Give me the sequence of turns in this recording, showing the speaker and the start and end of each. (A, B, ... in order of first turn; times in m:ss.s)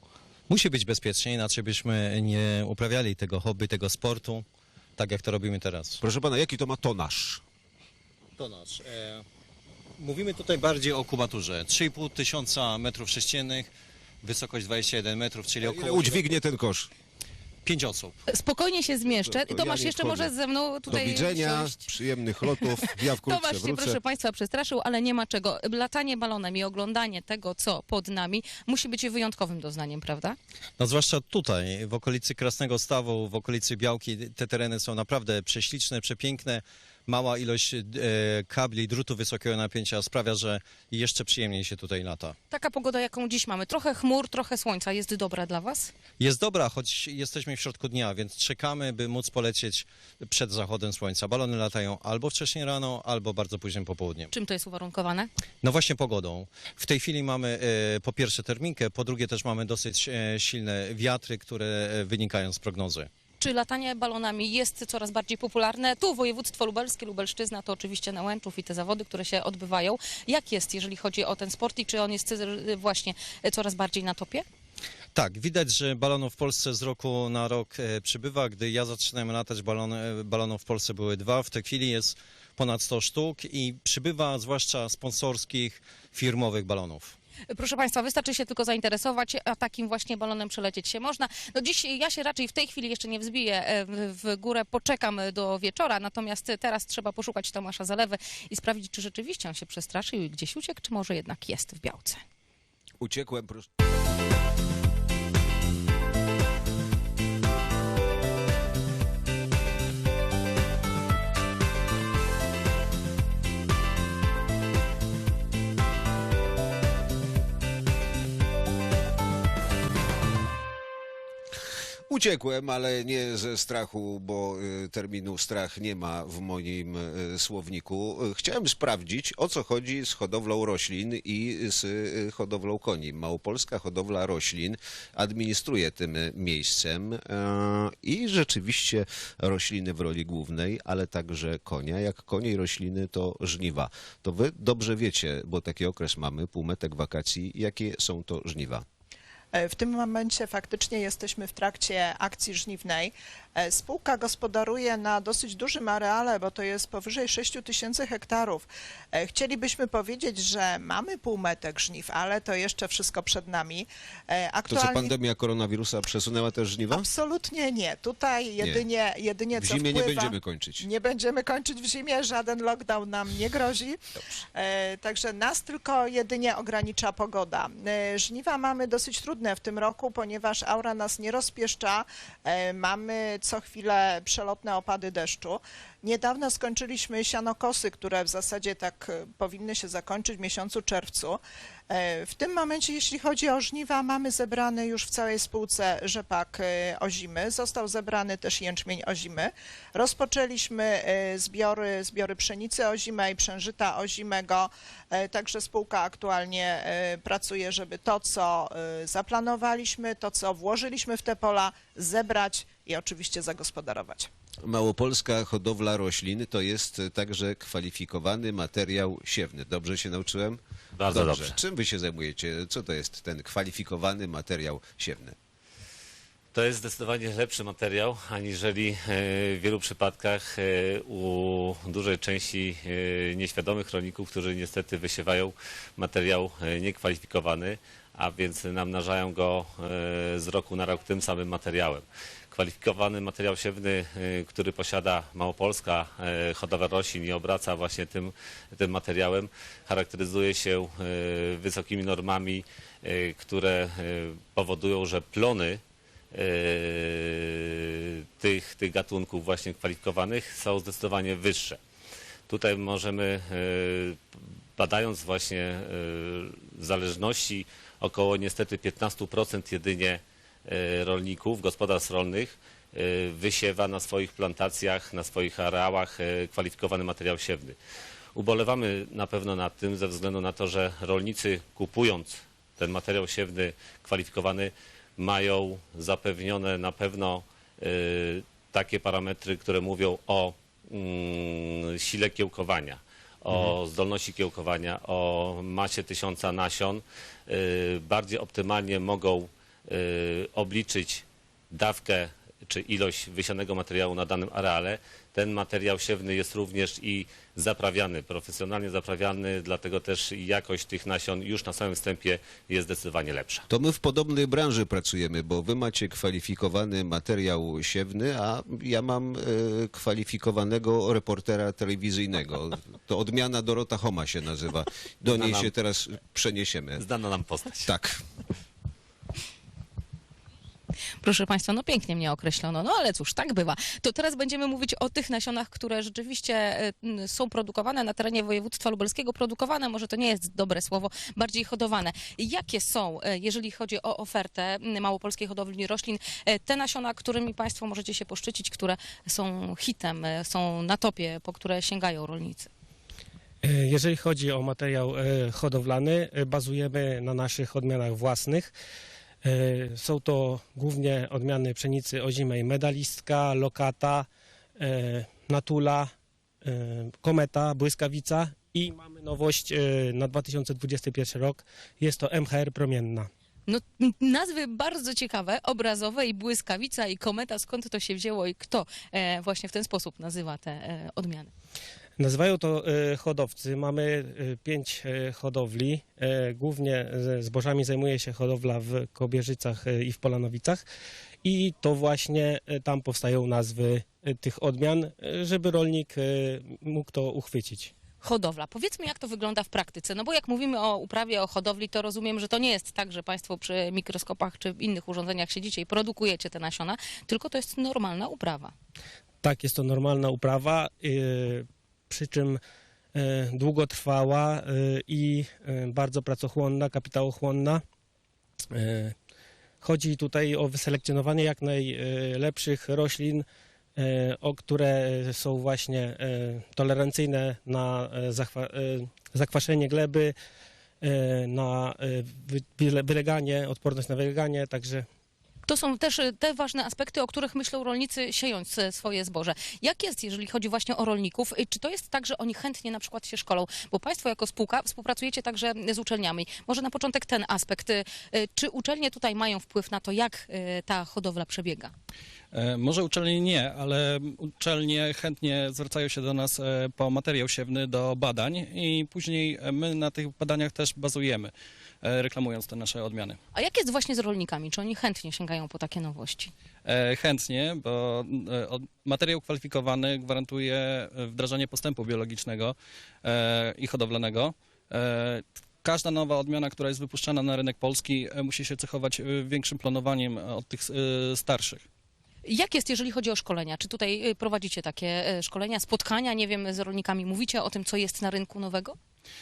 0:00.5-0:04.4 A
0:05.0-0:06.0 A
0:06.0-0:07.4 B
0:08.4-0:09.2 A
0:10.0-0:13.7 A
0:14.2-0:16.3 A
0:15.6-0:16.9 B
0:17.6-0:18.2 A
0:18.3-0:21.9 C
0:19.1-0:20.3 B
0:20.9-0:24.0 B
0:22.5-0:30.4 C
0:30.8-0:42.4 A
0:42.5-0:45.9 C
0:46.2-0:54.3 A
0:54.3-0:55.3 C
0:55.6-1:03.1 A
1:03.4-1:14.4 C
1:15.2-1:27.2 A
1:27.5-1:42.2 C
1:43.0-1:43.7 B
2:02.1-2:28.8 B
2:29.5-2:45.1 D
2:44.7-2:47.0 B
2:46.9-2:54.0 D
2:48.6-2:48.8 B
2:49.6-2:50.9 B
2:54.6-3:34.3 D
3:34.6-3:45.4 B
3:41.0-3:41.6 E
3:46.5-4:15.8 E
4:16.3-4:21.8 E
4:22.5-4:24.2 E
4:24.8-4:37.8 E
4:38.4-5:13.6 E
5:13.7-5:27.0 B
5:25.3-5:25.7 E
5:27.0-5:27.9 E
5:27.9-5:28.2 B
5:31.2-5:52.7 C
5:53.6-5:58.7 F
5:59.4-6:04.3 F
6:04.8-6:06.1 F
6:06.6-6:13.3 F
6:13.7-6:21.5 C
6:22.2-6:30.8 F
6:31.4-6:37.9 F
6:38.2-6:48.7 C
6:49.4-6:52.6 F
6:53.2-6:57.8 F
6:58.7-6:59.1 F
6:59.8-7:03.4 F
7:04.0-7:10.3 F
7:11.0-7:15.0 F
7:15.7-7:31.9 C
7:32.5-7:41.5 G
7:42.0-7:43.4 G
7:43.5-7:46.5 C
7:46.8-8:01.8 G
8:02.4-8:09.0 C